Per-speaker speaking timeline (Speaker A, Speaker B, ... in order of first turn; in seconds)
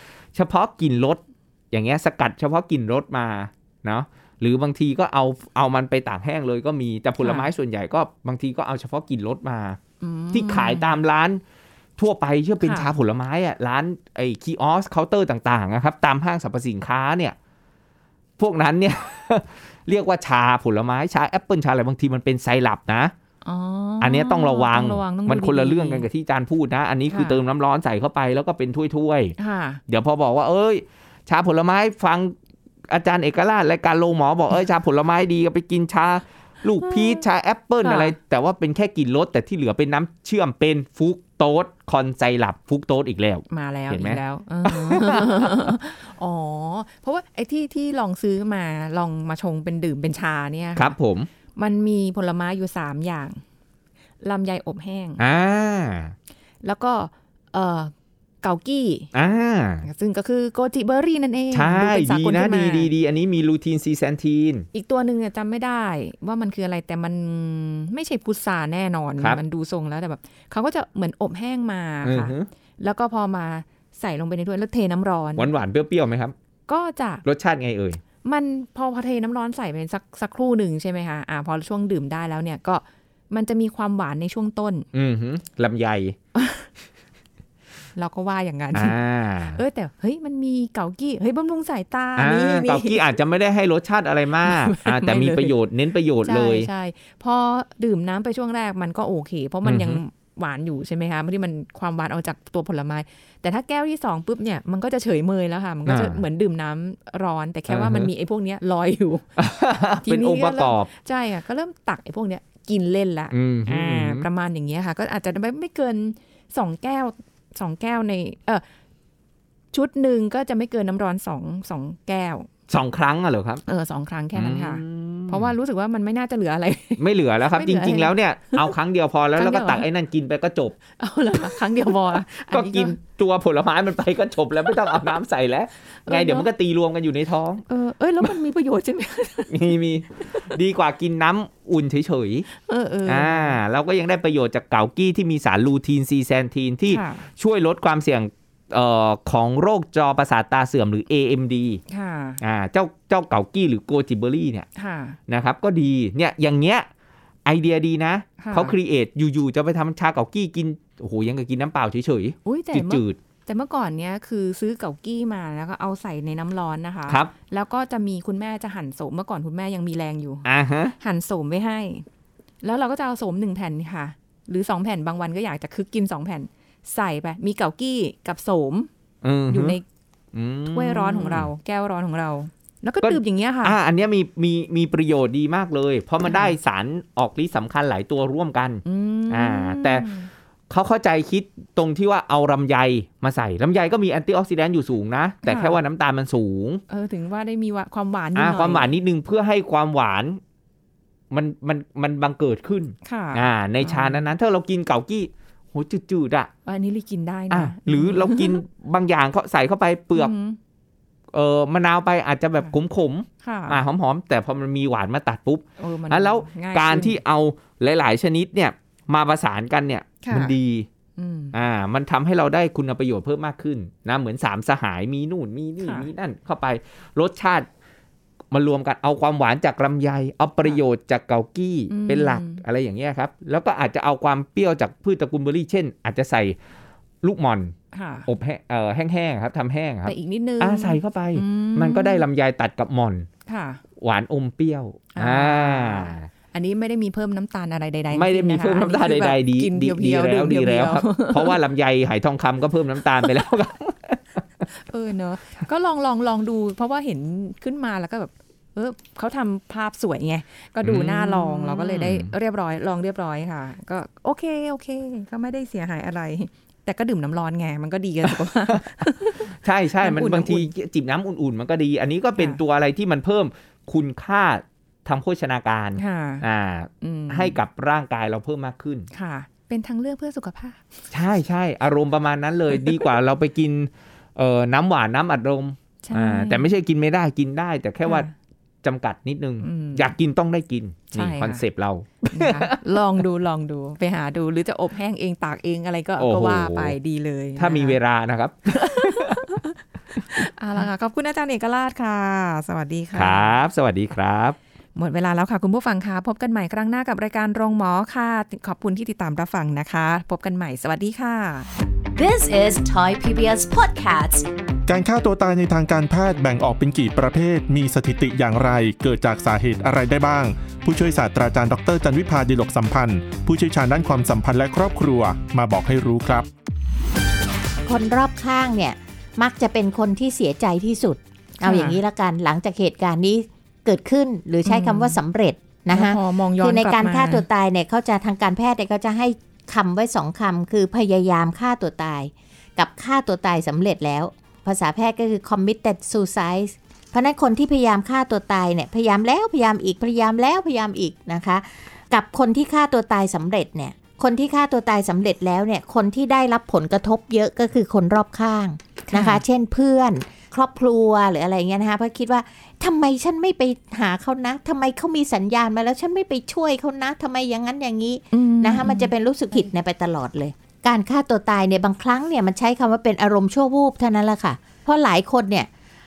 Speaker A: 0.3-9.8, 10.3-11.4, 12.0-17.4, 18.4-23.1, 24.0-29.4, 29.9-32.3, 32.9-45.7, 50.8-51.3, 55.2-56.1, 59.1-59.9, 61.5-64.7, 72.0-72.5, 75.3-76.3, 77.2-78.0, 84.9-86.2, 88.7-89.6, 92.2-96.7, 99.6-100.0, 105.8-106.2, 107.7-108.1, 109.4-110.9, 113.3-114.3, 122.7-123.6, 124.3-125.5, 127.0-130.8, 132.4-137.6, 139.5-142.4, 143.1-151.8, 152.4-154.7, 155.3-156.9, 157.4-163.2, 170.4-170.9, 179.2-179.8, 180.3-181.5, 183.0-190.1, 190.7-196.8, 198.3-200.4, 201.3-206.5, 207.5-210.3, 211.3-220.9, 221.5-227.7, 228.5-236.6, 237.2-237.8, 238.3-243.3, 244.0-246.3, 248.1-254.6, 260.8-262.3, 268.2-268.8, 269.4-279.1, 281.1-288.3, 288.8-292.8, 296.2-296.9, 297.6-299.4, 303.1-304.6
Speaker B: 7.2-7.5, 10.0-10.9, 12.6-12.9, 23.4-26.1, 27.1-27.4, 29.4-29.8, 36.8-37.2, 37.8-38.1, 43.5-50.9, 51.5-53.4, 54.2-55.2, 56.6-57.9, 58.4-59.1, 59.8-62.9, 64.7-75.5, 76.7-77.2, 78.2-84.9, 86.3-86.7, 88.0-89.0, 89.5-93.0, 94.4-95.5, 96.2-109.3, 110.0-118.6, 119.7-122.5, 123.7-128.7, 129.4-129.8, 131.0-133.0, 136.1-136.5, 137.7-139.7, 140.2-140.5, 142.6-143.6, 146.9-147.3, 151.9-152.4, 154.8-155.2, 158.4-158.7, 162.4-170.5, 171.0-172.1, 172.6-178.9, 179.5-179.8, 180.7-183.8, 186.2-186.5, 188.8-190.3, 195.4-195.8, 196.9-198.9, 203.0-204.2, 206.7-208.6, 210.1-210.6, 213.4-213.8, 215.8-217.2, 220.2-220.6, 221.2-221.5, 225.8-226.1, 231.9-232.6, 237.9-238.3, 240.1-242.2, 243.5-243.8, 245.1-251.6, 254.7-270.7, 276.0-276.4, 277.0-277.6, 279.1-280.9, 286.0-286.7, 288.0-288.3, 289.6-290.1, 291.1-291.6, 292.3-298.0, 298.7-303.5, 304.9-311.7, 331.6-332.0, 334.6-335.2, 335.9-337.4, 359.1-359.4, 368.3-369.1
Speaker C: 312.1-314.5
Speaker D: 314.9-326.5
Speaker E: 327.8-375.7